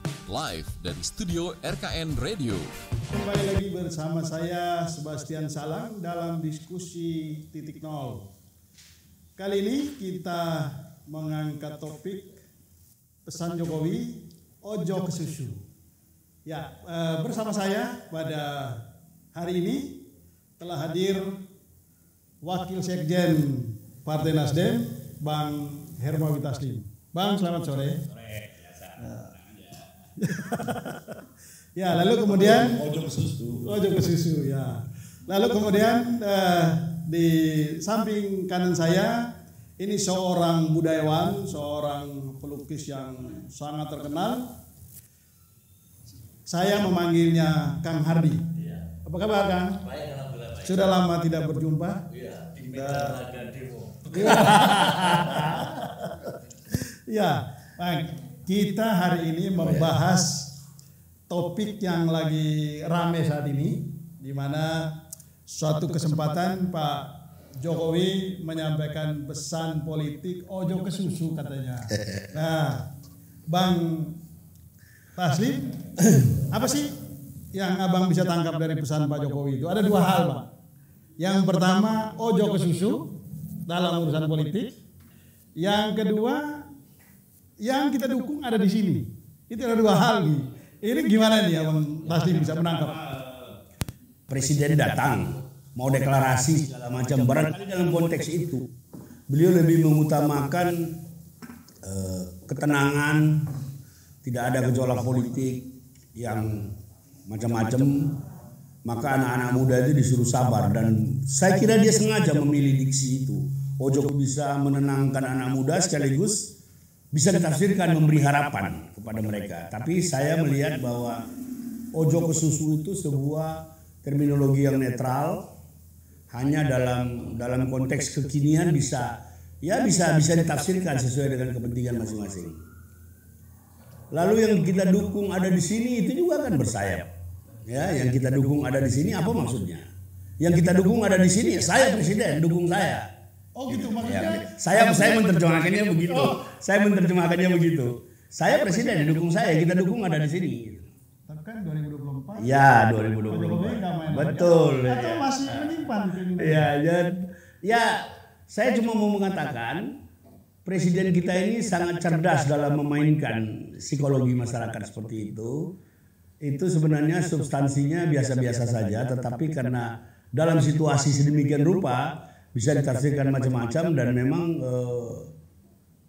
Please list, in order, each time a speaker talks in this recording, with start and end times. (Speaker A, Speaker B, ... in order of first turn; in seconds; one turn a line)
Speaker A: 0.3-2.7
Speaker B: 3.1-8.3
Speaker B: 9.4-12.4
Speaker B: 13.3-15.6
Speaker B: 16.5-20.0
Speaker B: 20.6-21.4
Speaker B: 22.4-28.0
Speaker C: 28.1-29.6
Speaker B: 29.0-29.3
Speaker B: 30.2-31.2
Speaker B: 31.8-32.8
Speaker C: 32.3-33.8
Speaker B: 33.6-44.5
Speaker B: 46.5-48.5
Speaker B: 49.0-49.8
Speaker D: 49.8-50.8
Speaker B: 50.6-52.0
Speaker D: 52.1-55.5
Speaker B: 52.6-53.1
Speaker B: 54.1-56.3
Speaker B: 57.1-60.5
Speaker C: 59.6-59.9
Speaker B: 61.3-64.9
Speaker B: 65.5-72.9
Speaker B: 73.5-74.2
Speaker B: 75.2-75.8
Speaker B: 76.4-77.0
Speaker B: 77.5-80.5
Speaker B: 81.2-83.1
Speaker B: 83.7-84.7
Speaker B: 85.6-86.7
Speaker B: 87.6-93.0
Speaker C: 93.0-93.5
Speaker C: 94.3-98.7
Speaker C: 99.3-101.0
Speaker C: 101.8-103.5
Speaker C: 104.2-106.8
Speaker C: 107.3-108.1
Speaker C: 108.8-116.5
Speaker C: 117.1-121.3
Speaker C: 121.9-125.4
Speaker C: 126.3-129.1
Speaker C: 129.6-132.6
Speaker C: 134.1-137.1
Speaker C: 137.7-139.9
Speaker C: 140.4-143.1
Speaker B: 143.6-145.5
Speaker C: 143.7-150.9
Speaker B: 151.3-152.5
Speaker C: 152.4-155.7
Speaker B: 153.3-156.7
Speaker C: 156.4-159.8
Speaker C: 160.7-165.6
Speaker C: 166.4-175.3